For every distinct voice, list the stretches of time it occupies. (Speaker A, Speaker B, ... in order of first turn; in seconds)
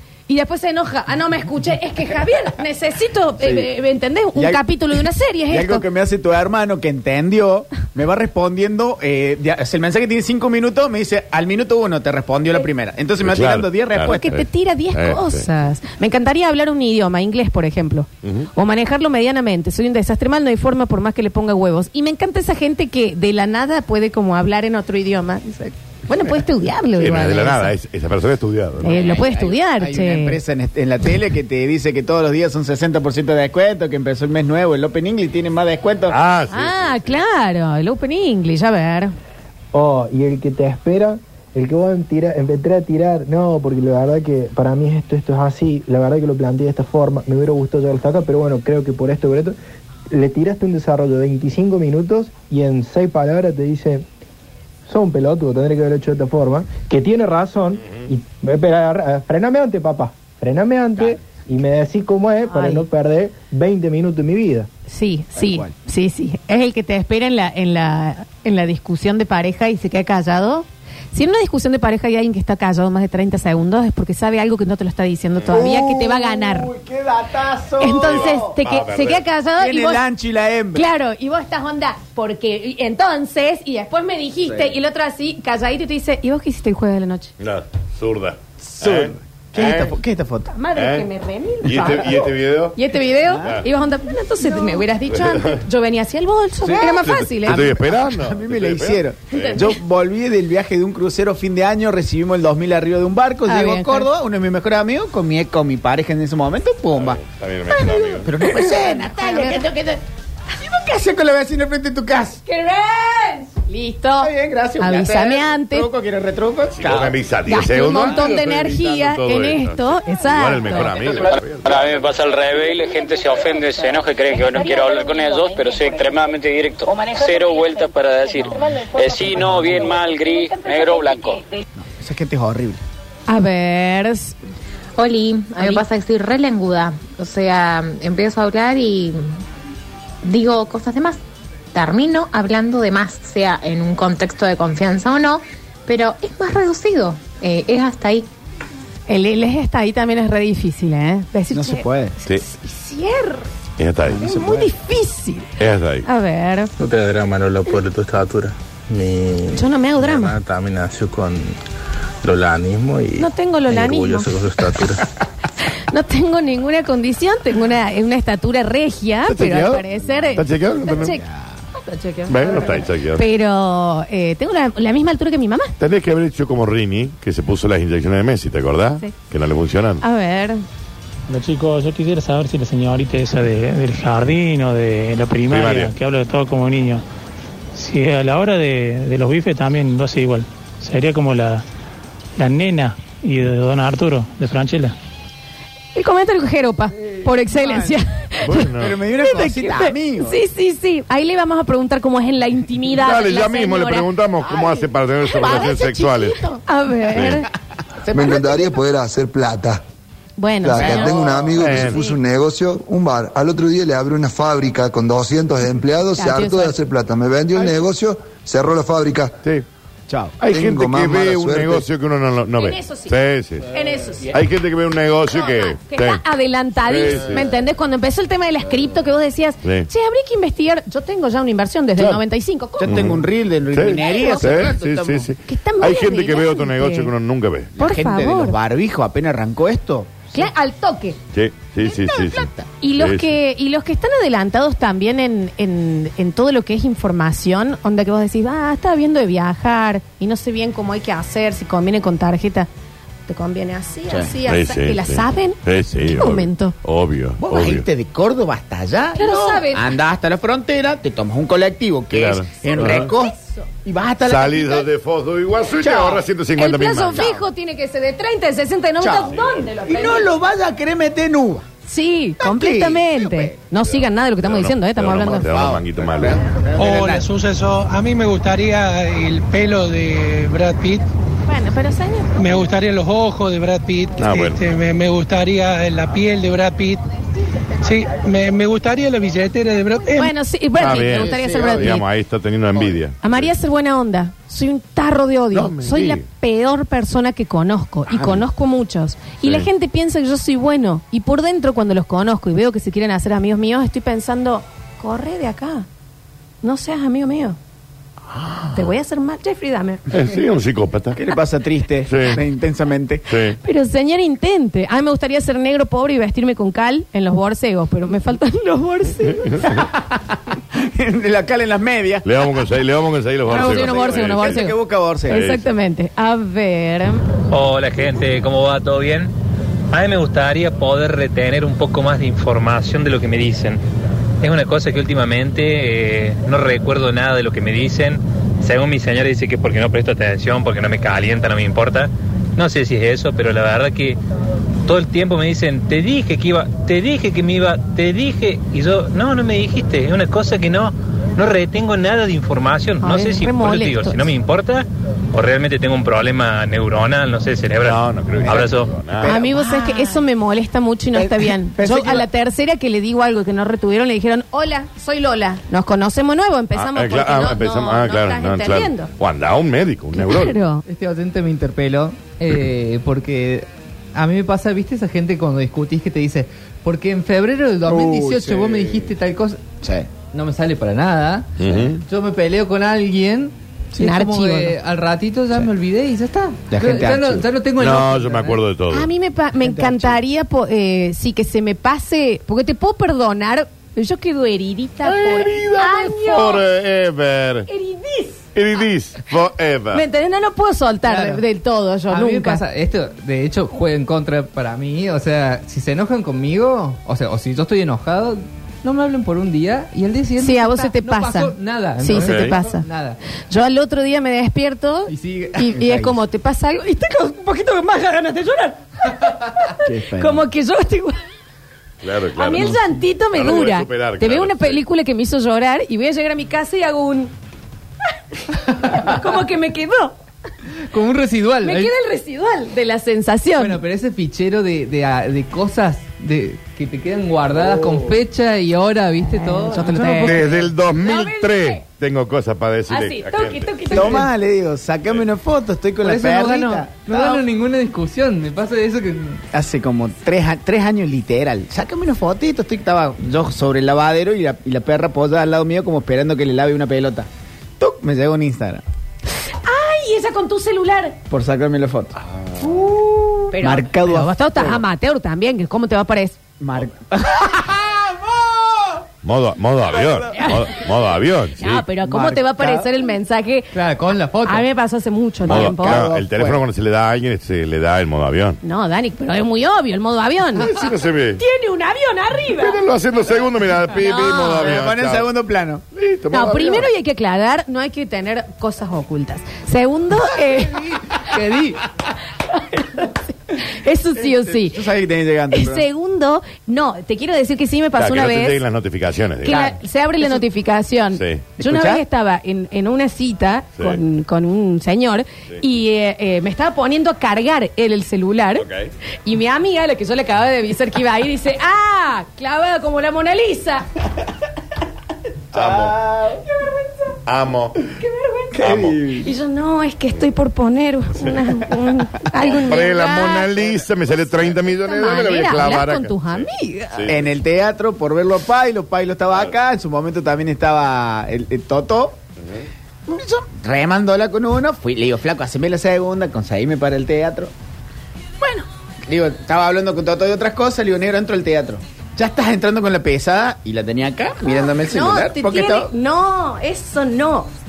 Speaker A: 0.3-5.8, 14.1-27.7, 28.8-30.4, 36.5-39.1, 62.5-62.8, 64.9-76.7, 77.8-80.0, 80.7-87.3, 90.5-97.7, 99.3-99.7, 103.5-104.1, 107.7-109.7, 112.5-115.9, 117.5-121.2, 133.3-134.3, 149.1-153.5, 154.2-155.5, 156.0-156.7, 159.5-160.4, 163.2-164.3, 165.9-171.2, 171.7-175.7, 180.0-180.6, 195.9-204.1, 205.2-207.5, 210.4-212.1, 216.1-216.8, 222.5-224.4, 225.3-233.0, 234.0-234.6, 235.4-237.1, 237.8-238.6, 240.3-241.2, 241.8-252.7, 253.3-255.6, 256.1-256.7, 259.1-259.9, 262.8-263.6, 266.6-270.3, 271.9-275.5, 281.5-282.6, 290.1-292.0, 293.2-305.9, 306.6-307.6, 308.7-310.0, 313.6-319.8, 323.5-324.7, 325.3-327.2, 353.0-354.3, 359.2-369.1, 370.1-370.8, 384.0-384.8, 388.9-396.6, 397.7-398.4, 399.9-402.6, 410.4-412.8, 413.5-419.4, 420.1-421.2, 422.4-427.3, 428.8-430.1, 431.6-433.8, 439.3-441.8, 442.9-444.3, 459.5-461.2, 463.5-466.4, 470.3-470.7, 471.6-473.7, 474.4-476.0, 478.6-482.8, 483.9-484.7, 486.3-491.8, 492.5-494.8, 495.5-498.6, 499.4-508.7, 509.2-513.9, 516.5-517.0, 518.0-518.5, 519.1-523.6, 524.5-527.1, 538.4-538.6, 544.4-547.5
Speaker B: 3.4-3.7, 4.3-4.6, 5.5-14.3, 28.8-36.2, 65.3-65.7, 75.5-78.6, 79.6-80.8, 84.5-84.7, 88.7-90.5, 93.3-93.6, 96.6-107.2, 108.2-110.0, 110.6-112.4, 114.2-117.2, 131.8-132.8, 151.5-152.2, 169.9-171.6, 197.2-198.0, 198.7-200.4, 204.5-204.8, 208.0-208.7, 210.7-211.9, 217.5-217.8, 220.1-220.6, 232.8-235.3, 237.7-240.4, 241.8-242.6, 254.1-254.4, 257.4-264.9, 265.7-266.2, 267.1-267.4, 269.0-271.7, 272.4-273.7, 275.1-277.2, 290.8-292.0, 311.1-313.2, 320.7-322.2, 323.5-325.4, 359.2-360.1, 361.1-362.2, 377.9-379.1, 379.8-380.1, 386.7-387.5, 389.6-390.2, 415.8-416.1, 419.8-420.4, 443.9-447.4, 449.5-457.3, 457.8-458.8, 461.3-462.2, 462.7-464.8, 466.6-468.9, 472.0-472.9, 475.4-476.6, 484.6-485.8, 494.2-495.9, 501.6-502.0, 515.5-516.4, 518.5-519.2, 527.0-532.2, 533.1-537.5, 539.1-545.9
Speaker C: 13.2-15.5, 18.2-18.5, 27.0-29.3, 36.1-37.1, 78.0-79.2, 87.4-90.0, 90.7-91.1, 91.6-92.8, 93.3-93.6, 95.2-95.6, 97.0-99.7, 107.0-108.3, 116.7-121.7, 153.8-154.5, 155.6-156.1, 169.2-171.2, 172.3-173.2, 175.8-180.0, 185.5-185.9, 198.4-198.9, 202.9-206.4, 207.1-207.4, 211.6-212.0, 220.4-223.6, 224.3-226.2, 226.8-227.5, 229.6-229.9, 232.8-237.7, 241.3-243.3, 254.4-257.9, 262.1-263.1, 264.2-267.3, 269.3-269.6, 274.4-276.4, 284.2-284.6, 290.8-293.5, 295.5-296.2, 299.4-299.7, 310.1-311.2, 312.1-312.4, 313.3-313.6, 322.2-324.7, 325.3-325.6, 357.8-359.4, 366.7-370.6, 381.6-382.0, 387.8-389.1, 395.0-397.7, 398.5-400.0, 412.1-412.5, 422.0-424.8, 440.2-443.8, 469.2-471.9, 475.4-478.6, 480.6-481.4, 482.5-485.3, 485.9-486.9, 497.9-499.8, 501.1-501.5, 508.6-508.9, 515.5-516.0, 517.2-517.8, 518.6-519.0, 522.5-527.3
Speaker D: 39.7-49.5, 50.1-54.0, 54.9-64.7
Speaker E: 121.6-131.4
Speaker F: 135.0-139.2, 140.2-141.2, 141.7-148.2
Speaker G: 156.8-161.6, 162.2-165.1
Speaker H: 181.3-187.0, 187.7-191.6, 192.4-194.9
Speaker I: 208.1-209.8, 210.6-219.4, 220.5-221.8
Speaker J: 276.8-281.0, 282.4-287.0, 287.8-290.3
Speaker K: 327.5-329.3, 329.9-333.8, 334.4-344.2, 344.9-358.9
Speaker L: 370.8-379.7, 380.3-388.6, 401.0-401.4, 402.1-413.2, 415.1-415.7, 430.9-431.9, 433.6-440.5, 443.9-444.3, 446.0-449.4, 473.7-474.6